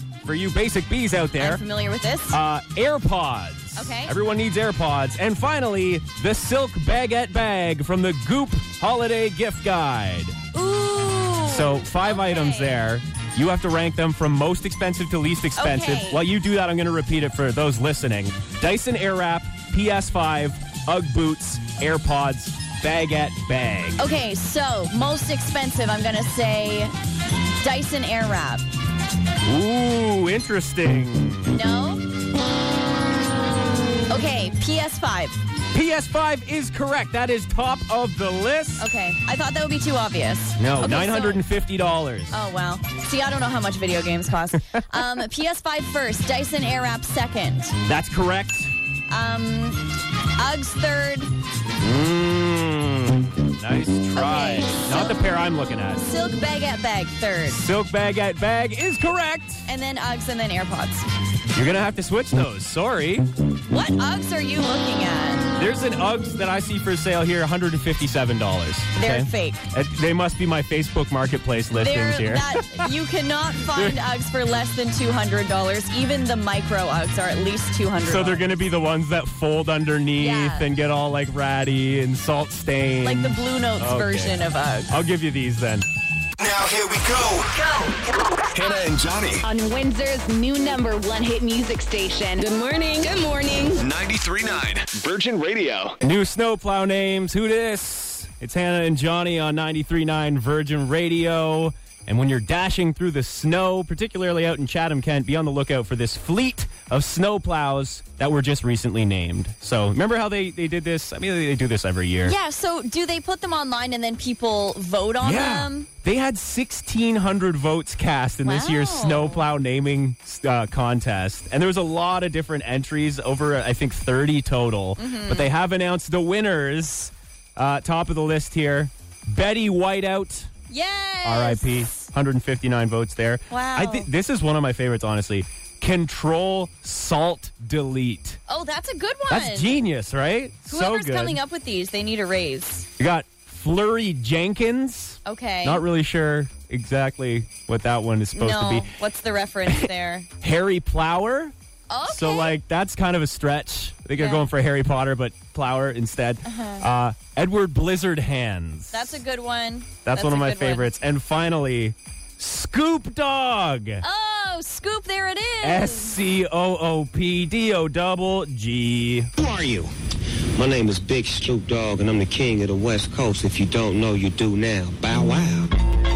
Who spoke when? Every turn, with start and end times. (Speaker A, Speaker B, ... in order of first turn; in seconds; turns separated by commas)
Speaker A: 0.2-1.6, Speaker B: 1.4-2.4, Speaker A: 2.3-10.3, Speaker B: 3.8-4.1, Speaker B: 10.5-12.8, Speaker A: 11.5-24.0, Speaker B: 15.6-16.2, Speaker B: 24.0-26.9, Speaker B: 27.6-28.6, Speaker A: 29.4-31.6, Speaker B: 31.5-32.0, Speaker B: 34.1-35.3, Speaker A: 35.7-38.9, Speaker B: 38.8-41.4, Speaker A: 40.6-42.4, Speaker B: 42.3-47.8, Speaker A: 47.9-48.7, Speaker B: 49.1-51.3, Speaker A: 51.8-56.0, Speaker B: 54.1-55.2, Speaker B: 56.0-57.6, Speaker A: 57.5-59.6, Speaker B: 59.6-61.0, Speaker A: 61.5-63.2, Speaker B: 63.7-65.5, Speaker A: 65.6-72.8, Speaker B: 68.9-69.6, Speaker B: 71.8-78.4, Speaker A: 73.7-74.0, Speaker A: 78.0-84.3, Speaker B: 80.2-80.7, Speaker B: 83.0-85.0, Speaker A: 84.9-85.8, Speaker C: 86.4-87.8, Speaker C: 88.5-89.4, Speaker D: 89.4-93.8, Speaker C: 93.8-95.9, Speaker A: 96.0-112.3, Speaker B: 112.2-115.9, Speaker A: 115.2-130.5, Speaker B: 118.4-119.5, Speaker B: 125.0-125.5, Speaker B: 130.7-132.0, Speaker A: 131.2-138.4, Speaker B: 133.5-134.1, Speaker B: 138.5-139.8, Speaker A: 139.3-141.4, Speaker B: 140.7-142.8, Speaker A: 143.0-148.9, Speaker B: 145.2-145.8, Speaker B: 148.3-150.3, Speaker A: 150.4-151.5, Speaker B: 151.9-152.6, Speaker A: 152.0-159.2, Speaker B: 154.2-154.5, Speaker B: 156.4-156.8, Speaker B: 158.9-160.9, Speaker A: 160.0-164.0, Speaker B: 164.0-166.2, Speaker A: 165.6-169.3, Speaker E: 169.4-169.9, Speaker E: 170.5-175.7